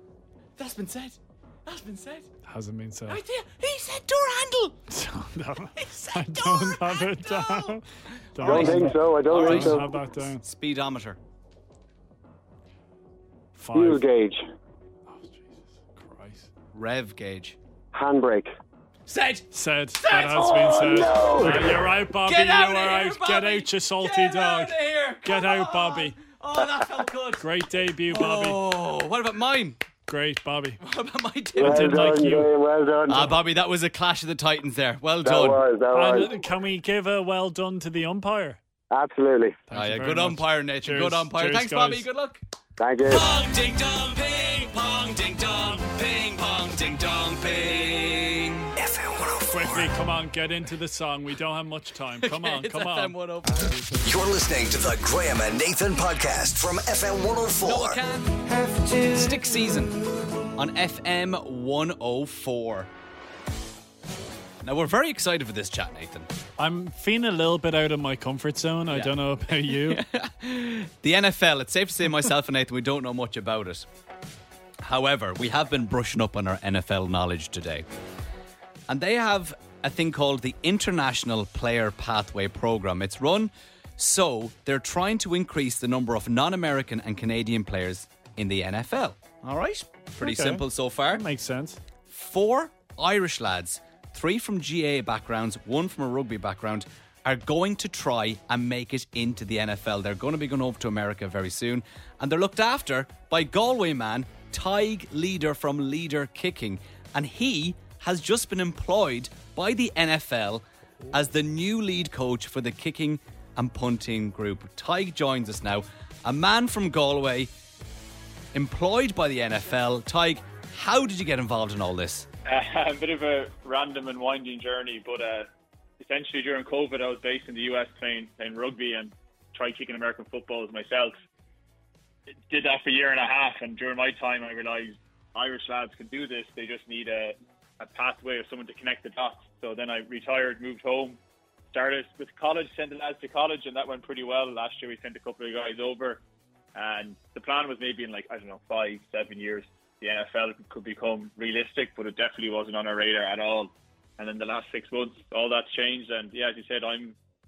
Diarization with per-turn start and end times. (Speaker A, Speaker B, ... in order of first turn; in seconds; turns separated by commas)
Speaker A: 0.6-2.3, Speaker B: 2.5-3.2, Speaker A: 3.1-4.8, Speaker B: 4.9-7.8, Speaker A: 5.8-7.8, Speaker A: 8.3-9.8, Speaker B: 8.3-10.4, Speaker C: 8.4-10.0, Speaker A: 10.4-11.2, Speaker B: 13.6-14.0, Speaker C: 13.7-14.4, Speaker B: 15.1-16.5, Speaker A: 16.7-17.6, Speaker C: 17.9-18.5, Speaker A: 19.1-19.5, Speaker B: 19.5-26.2, Speaker A: 20.0-21.0, Speaker C: 20.4-21.8, Speaker A: 22.2-27.5, Speaker B: 27.4-28.6, Speaker A: 28.1-29.8, Speaker B: 30.1-30.8, Speaker A: 30.8-32.2, Speaker C: 31.6-33.3, Speaker B: 31.6-32.5, Speaker A: 33.1-35.6, Speaker C: 35.2-36.3, Speaker B: 35.9-38.6, Speaker C: 38.9-39.6, Speaker B: 39.7-42.0, Speaker A: 39.7-42.4, Speaker C: 42.8-43.3, Speaker A: 43.1-48.7, Speaker D: 48.8-49.9, Speaker B: 49.5-53.1, Speaker A: 52.2-53.7, Speaker D: 54.0-58.0, Speaker A: 57.6-58.4, Speaker A: 59.0-60.0, Speaker A: 60.5-62.9, Speaker A: 64.6-66.3, Speaker B: 66.6-70.0, Speaker A: 69.7-73.9, Speaker A: 74.8-77.8, Speaker A: 78.9-91.2, Speaker B: 90.2-91.8, Speaker A: 92.1-117.5, Speaker A: 118.5-122.3, Speaker E: 122.5-125.5, Speaker E: 126.0-131.1, Speaker E: 132.5-141.2, Speaker E: 141.7-146.2, Speaker E: 146.7-157.2